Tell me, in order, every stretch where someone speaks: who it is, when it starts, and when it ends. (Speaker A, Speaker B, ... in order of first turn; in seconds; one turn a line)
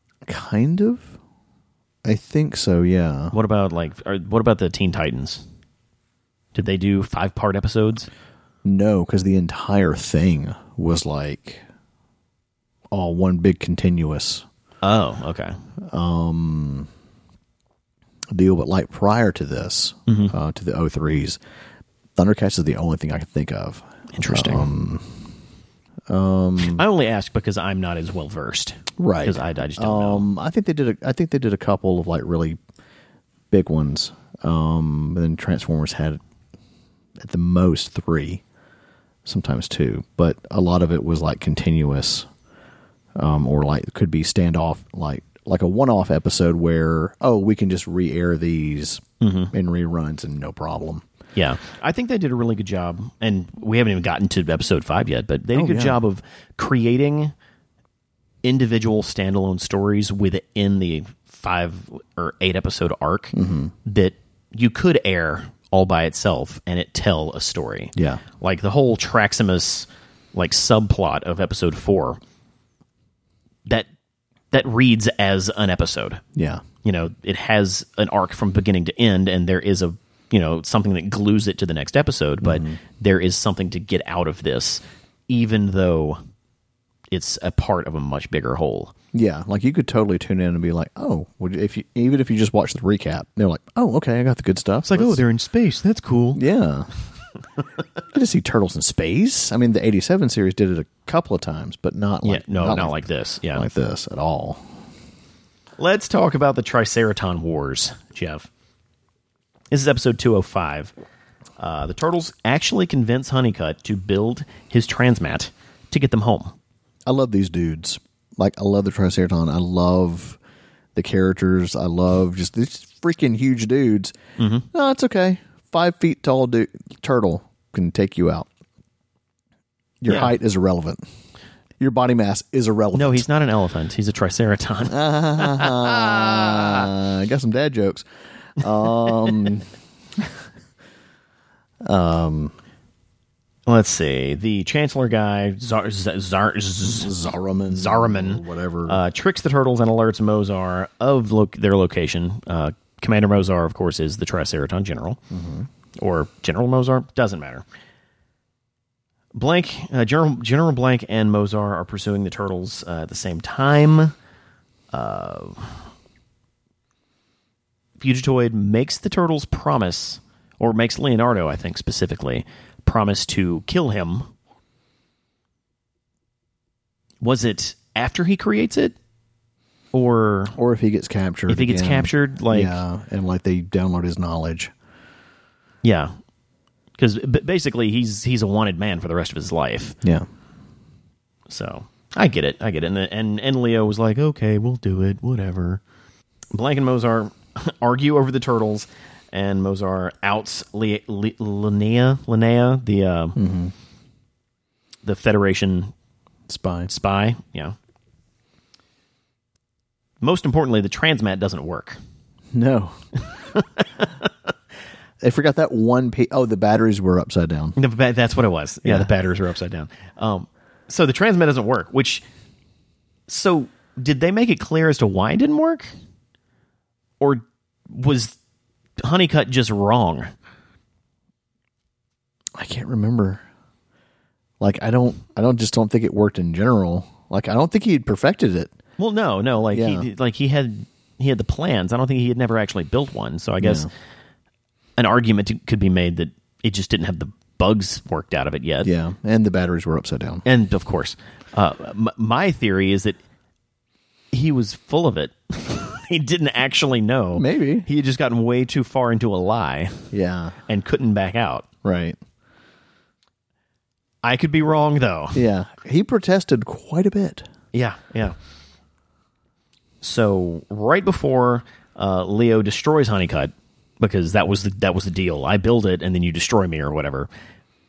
Speaker A: 0.3-1.1
Speaker A: 2.0-3.3
Speaker B: 3.3-5.4
Speaker B: 6.5-8.1
Speaker A: 8.6-11.6
Speaker A: 12.9-14.4
Speaker B: 14.8-15.6
Speaker A: 15.9-16.9
Speaker A: 18.3-21.4
Speaker B: 20.1-20.3
Speaker A: 22.2-25.2
Speaker B: 24.1-24.7
Speaker A: 26.1-26.8
Speaker B: 26.6-30.3
Speaker A: 29.0-32.6
Speaker A: 33.5-36.2
Speaker A: 37.2-38.4
Speaker A: 39.2-42.3
Speaker A: 43.2-51.0
Speaker B: 49.2-49.5
Speaker B: 51.4-57.3
Speaker A: 55.5-56.0
Speaker B: 58.4-72.2
Speaker A: 63.3-63.7
Speaker A: 68.0-68.2
Speaker B: 74.5-76.2
Speaker A: 76.3-76.6
Speaker B: 76.8-86.2
Speaker A: 82.4-82.8
Speaker B: 87.1-88.9
Speaker A: 89.1-95.2
Speaker B: 94.9-96.4
Speaker A: 96.3-96.9
Speaker A: 98.1-103.0
Speaker B: 102.2-103.7
Speaker A: 103.5-104.7
Speaker B: 105.8-108.5
Speaker B: 109.7-110.9
Speaker B: 111.6-116.5
Speaker A: 117.1-120.4
Speaker A: 121.0-124.2
Speaker B: 124.4-124.7
Speaker A: 124.7-128.5
Speaker A: 130.0-131.0
Speaker B: 130.1-130.3
Speaker A: 131.8-133.2
Speaker B: 132.9-136.9
Speaker A: 134.9-140.3
Speaker A: 141.8-142.5
Speaker B: 143.7-147.1
Speaker A: 146.8-149.0
Speaker B: 147.7-155.2
Speaker A: 155.3-155.7
Speaker B: 156.0-157.6
Speaker B: 159.3-164.1
Speaker B: 164.9-165.8
Speaker B: 168.0-174.3
Speaker B: 177.2-179.0
Speaker B: 179.9-180.6
Speaker A: 180.6-184.7
Speaker B: 181.5-182.8
Speaker B: 185.8-186.1
Speaker B: 187.0-190.0
Speaker B: 191.5-195.8
Speaker B: 196.5-203.4
Speaker A: 203.4-203.7
Speaker B: 205.0-205.9
Speaker A: 206.5-206.9
Speaker B: 206.9-207.8
Speaker B: 210.2-212.0
Speaker A: 212.5-213.0
Speaker B: 213.5-214.3
Speaker A: 215.2-217.8
Speaker B: 217.8-222.2
Speaker B: 223.3-225.9
Speaker B: 227.2-228.4
Speaker B: 229.0-230.3
Speaker A: 232.6-233.4
Speaker A: 234.6-238.7
Speaker B: 239.0-243.9
Speaker A: 239.7-240.1
Speaker A: 243.6-243.9
Speaker B: 245.0-248.9
Speaker A: 248.8-250.4
Speaker B: 250.4-253.2
Speaker B: 254.3-260.1
Speaker A: 257.4-257.9
Speaker A: 260.1-260.6
Speaker B: 260.7-261.7
Speaker A: 261.8-262.2
Speaker B: 264.2-265.4
Speaker A: 265.3-267.5
Speaker B: 267.7-268.4
Speaker B: 270.0-277.3